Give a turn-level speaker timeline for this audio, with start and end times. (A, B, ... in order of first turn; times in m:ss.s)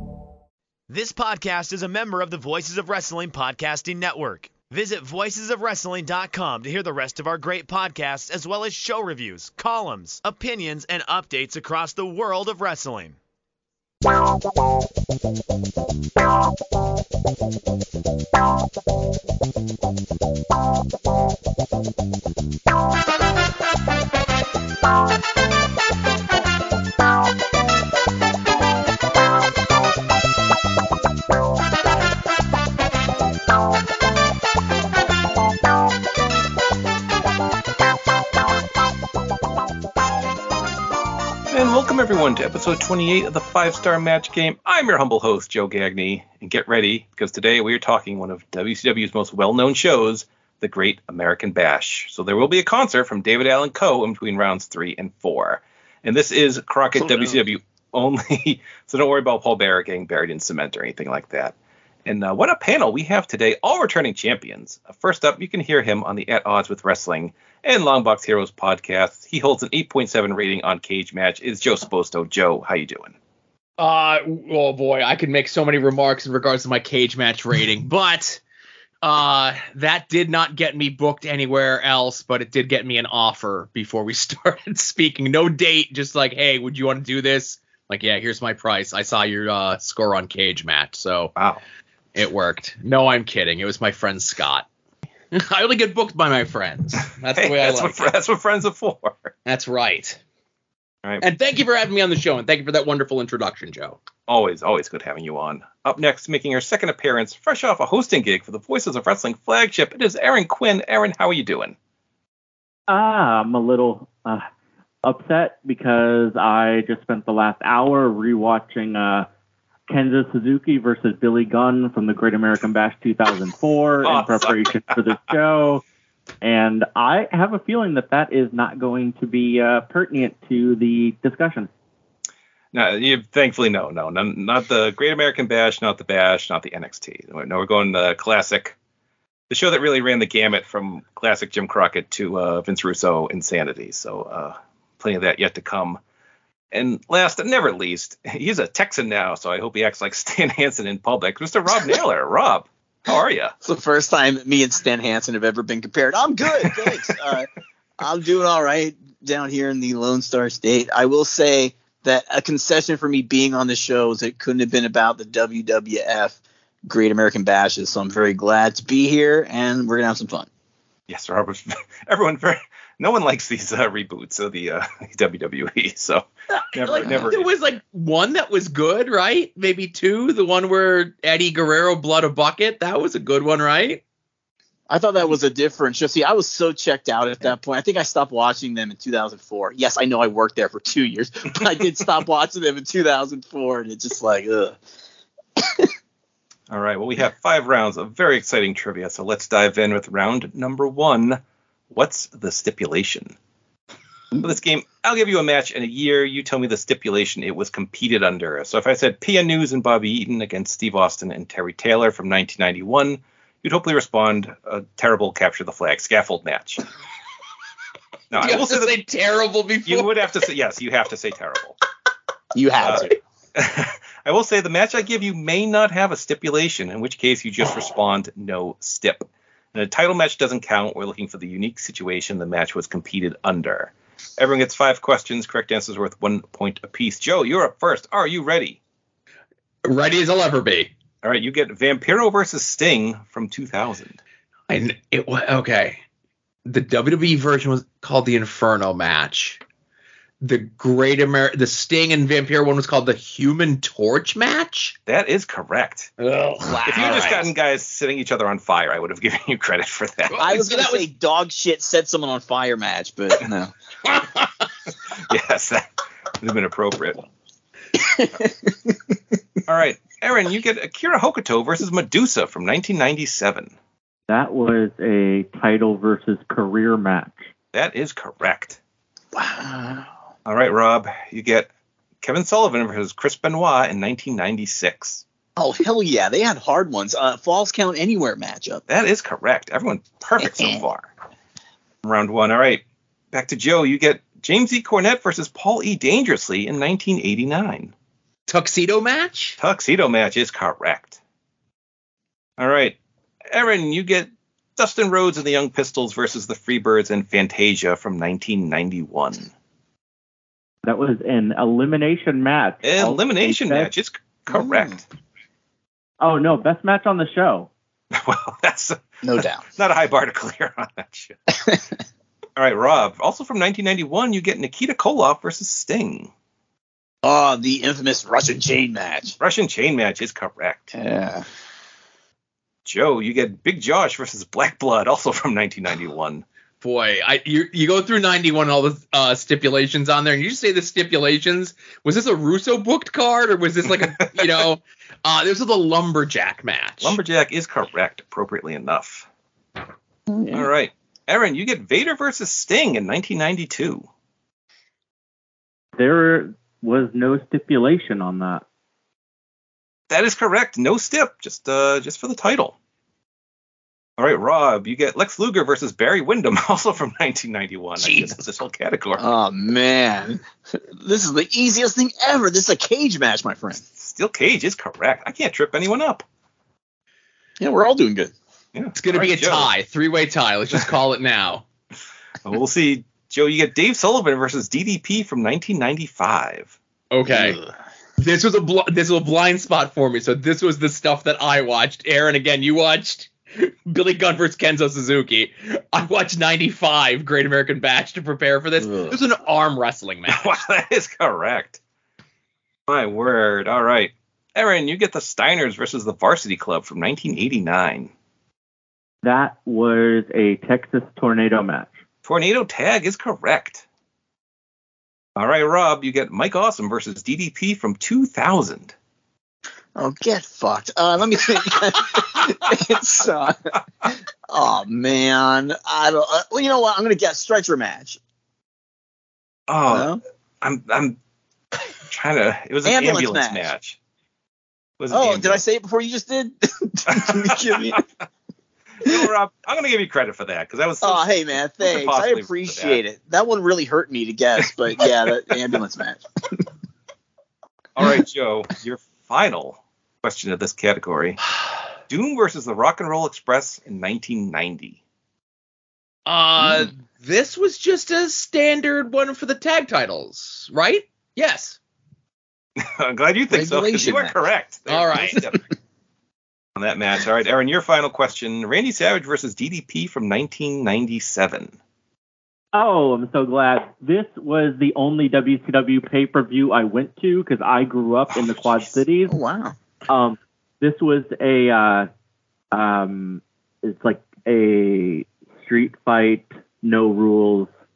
0:00.9-0:13.2 A
0:41.5-1:01.5 B
0:57.0-0:57.4 C
1:02.1-1:13.2 B
1:13.8-1:18.4 D
1:19.0-1:31.3 D
1:31.4-1:31.6 B
1:32.2-1:34.7 D
1:35.3-1:38.1 D
1:37.3-1:39.3 B
1:39.5-1:40.2 D
1:41.2-1:44.0 D
1:44.3-1:51.8 B
1:52.9-1:54.5 E
1:55.0-1:59.3 E
1:59.9-2:05.8 E
2:04.0-2:05.0 B
2:06.4-2:11.7 E
2:12.7-2:18.8 B
2:19.5-2:26.0 B
2:26.7-2:33.5 B
2:33.6-2:37.5 C
2:36.6-2:36.9 B
2:38.0-2:50.5 C
2:51.1-2:57.5 B
2:56.8-3:04.0 D
3:04.9-3:14.8 C
3:15.6-3:15.9 C
3:16.7-3:21.4 B
3:21.9-3:23.4 B
3:24.4-3:36.9 B
3:38.3-3:39.0 B
3:38.3-3:40.1 D
3:39.9-3:41.8 B
3:42.5-3:43.2 C
3:42.8-3:58.8 B
3:59.8-4:00.9 D
4:01.2-4:04.2 B
4:04.7-4:06.0 D
4:06.7-4:09.6 D
4:10.4-4:15.0 D
4:15.1-4:16.1 B
4:16.2-4:17.5 D
4:16.7-4:17.4 C
4:16.8-4:20.6 B
4:20.3-4:21.0 D
4:20.4-4:23.7 C
4:24.1-4:24.5 D
4:25.2-4:25.9 B
4:26.4-4:27.3 B
4:28.0-4:29.0 C
4:29.7-4:33.7 B
4:34.3-4:37.4 E
4:37.7-4:38.8 B
4:39.3-4:40.1 C
4:40.5-4:41.7 B
4:42.2-4:45.2 B
4:45.6-4:48.8 C
4:48.9-4:51.1 B
4:50.4-4:50.8 C
4:52.0-4:57.9 B
4:58.5-4:59.6 D
4:59.6-5:01.2 B
5:02.6-5:03.0 B
5:03.5-5:09.5 B
5:10.8-5:13.9 E
5:12.8-5:15.0 B
5:14.5-5:15.0 C
5:16.2-5:17.7 E
5:18.1-5:19.0 B
5:19.2-5:19.6 C
5:19.7-5:21.4 B
5:22.6-5:26.3 B
5:27.2-5:29.4 C
5:29.4-5:30.9 B
5:30.9-5:31.5 C
5:32.8-5:36.4 B
5:36.8-5:47.2 D
5:44.2-5:44.6 B
5:47.0-5:49.3 B
5:50.3-5:50.7 C
5:50.5-5:54.1 B
5:56.0-5:58.6 E
6:00.1-6:02.8 B
6:04.2-6:09.2 B
6:08.0-6:08.4 D
6:09.2-6:13.8 C
6:14.0-6:16.2 B
6:17.6-6:18.3 C
6:18.8-6:19.7 B
6:19.0-6:21.6 D
6:22.4-6:26.8 B
6:27.1-6:27.6 D
6:27.3-6:27.7 C
6:28.2-6:40.5 D
6:38.8-6:39.2 C
6:40.3-6:41.8 B
6:42.9-6:48.1 B
6:49.2-6:51.9 E
6:52.2-6:53.8 B
6:55.4-6:58.9 B
7:00.0-7:08.2 C
7:09.7-7:11.2 B
7:09.9-7:10.2 C
7:12.1-7:14.0 B
7:12.8-7:13.7 C
7:15.0-7:15.6 B
7:15.1-7:18.0 C
7:17.1-7:18.0 B
7:19.0-7:23.0 B
7:21.0-7:26.6 C
7:28.0-7:31.4 B
7:32.1-7:35.0 B
7:36.3-7:41.8 D
7:42.8-7:45.6 B
7:43.5-7:44.4 C
7:44.9-7:45.4 D
7:46.8-7:51.8 B
7:52.7-7:59.4 E
7:58.3-7:59.0 B
7:59.3-7:59.8 C
8:00.1-8:02.1 E
8:02.7-8:07.7 E